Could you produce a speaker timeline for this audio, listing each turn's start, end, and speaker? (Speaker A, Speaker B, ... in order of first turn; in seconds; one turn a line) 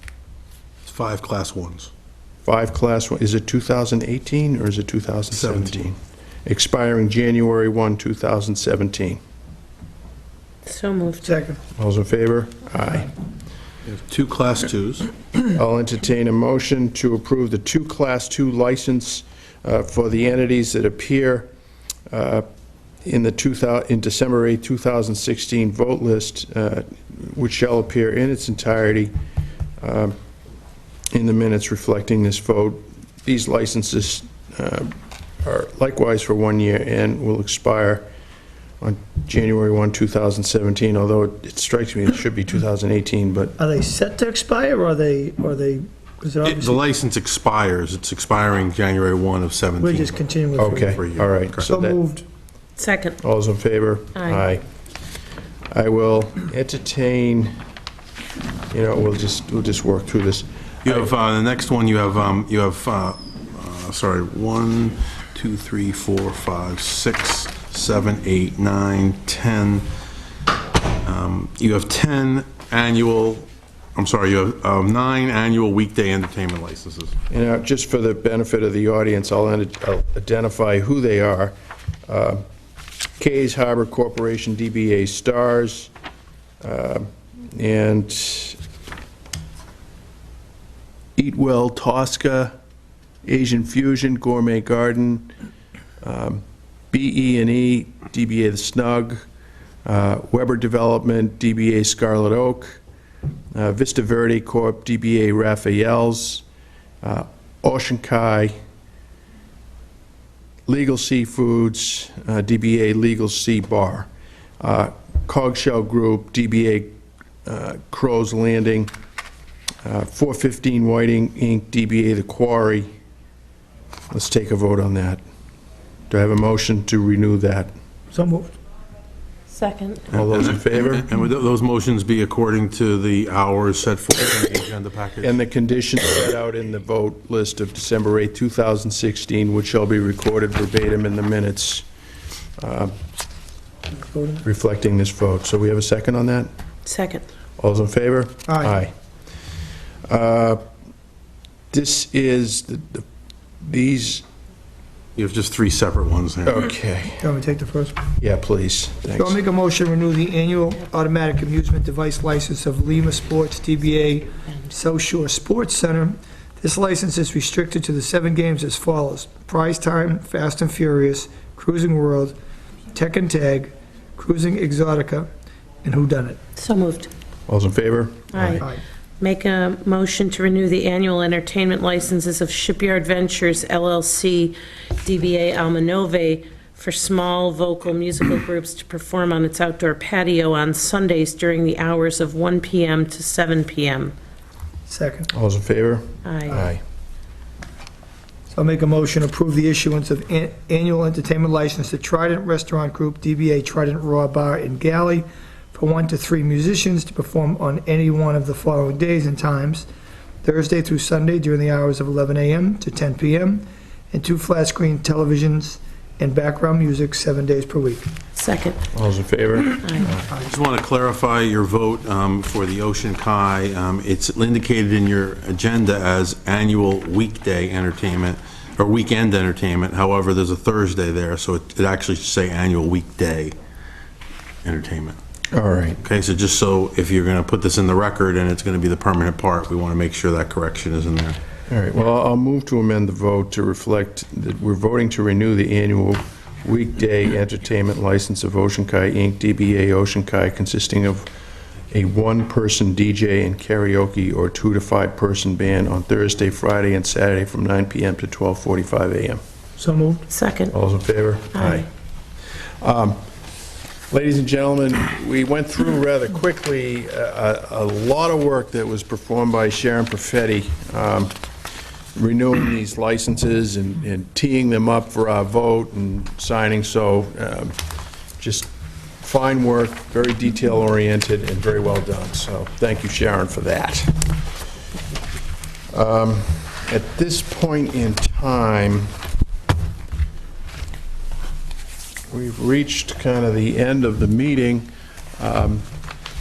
Speaker A: 0.8-1.9
Speaker B: 2.4-9.2
Speaker A: 5.3-5.8
Speaker C: 10.7-11.4
Speaker D: 11.2-11.6
Speaker B: 11.8-13.1
Speaker A: 13.9-15.1
Speaker B: 15.5-21.5
Speaker B: 22.1-22.5
Speaker B: 23.0-29.1
Speaker B: 29.8-30.1
Speaker B: 31.1-38.1
Speaker B: 38.8-43.5
Speaker D: 43.6-46.8
Speaker A: 46.4-51.7
Speaker D: 49.8-51.0
Speaker B: 50.6-52.0
Speaker D: 51.7-52.2
Speaker C: 52.8-53.2
Speaker B: 53.2-54.6
Speaker C: 54.2-54.4
Speaker B: 55.7-57.5
Speaker B: 58.7-61.1
Speaker A: 60.9-69.9
Speaker A: 71.0-77.2
Speaker B: 77.3-81.5
Speaker B: 82.1-82.4
Speaker B: 83.2-85.9
Speaker B: 86.6-88.6
Speaker B: 91.2-92.5
Speaker B: 93.2-95.3
Speaker B: 96.0-99.2
Speaker B: 99.8-102.8
Speaker B: 103.5-106.5
Speaker B: 107.0-108.5
Speaker B: 110.7-114.1
Speaker B: 114.6-118.9
Speaker B: 119.8-122.9
Speaker B: 124.1-125.2
Speaker B: 126.1-127.7
Speaker D: 128.1-128.5
Speaker C: 129.5-130.1
Speaker A: 130.1-135.4
Speaker B: 130.1-131.1
Speaker B: 135.2-141.9
Speaker B: 142.6-142.9
Speaker D: 144.1-144.4
Speaker B: 144.4-146.5
Speaker C: 146.8-147.2
Speaker B: 147.6-148.9
Speaker D: 148.5-148.8
Speaker B: 150.1-150.6
Speaker B: 151.7-153.1
Speaker B: 153.6-154.2
Speaker A: 155.2-156.6
Speaker B: 156.4-157.2
Speaker D: 157.2-158.0
Speaker B: 158.2-159.4
Speaker D: 159.2-172.4
Speaker D: 172.9-175.3
Speaker D: 175.8-176.4
Speaker C: 176.6-177.1
Speaker B: 177.5-178.7
Speaker C: 178.3-178.7
Speaker C: 179.2-194.1
Speaker D: 194.9-195.3
Speaker B: 195.3-196.8
Speaker C: 196.2-196.6
Speaker D: 198.5-209.9
Speaker D: 210.4-218.1
Speaker C: 218.4-218.8
Speaker B: 218.9-220.3
Speaker C: 219.7-220.1
Speaker A: 220.3-233.6
Speaker A: 234.6-235.2
Speaker B: 235.5-236.0
Speaker A: 236.0-241.4
Speaker B: 241.7-251.3
Speaker B: 251.9-259.4
Speaker D: 259.8-260.2
Speaker C: 260.3-260.8
Speaker B: 260.7-261.9
Speaker C: 261.6-261.8
Speaker B: 262.8-263.2
Speaker B: 264.1-271.3
Speaker B: 272.1-277.8
Speaker B: 278.4-278.7
Speaker B: 279.2-284.4
Speaker B: 285.9-289.1
Speaker B: 292.3-295.9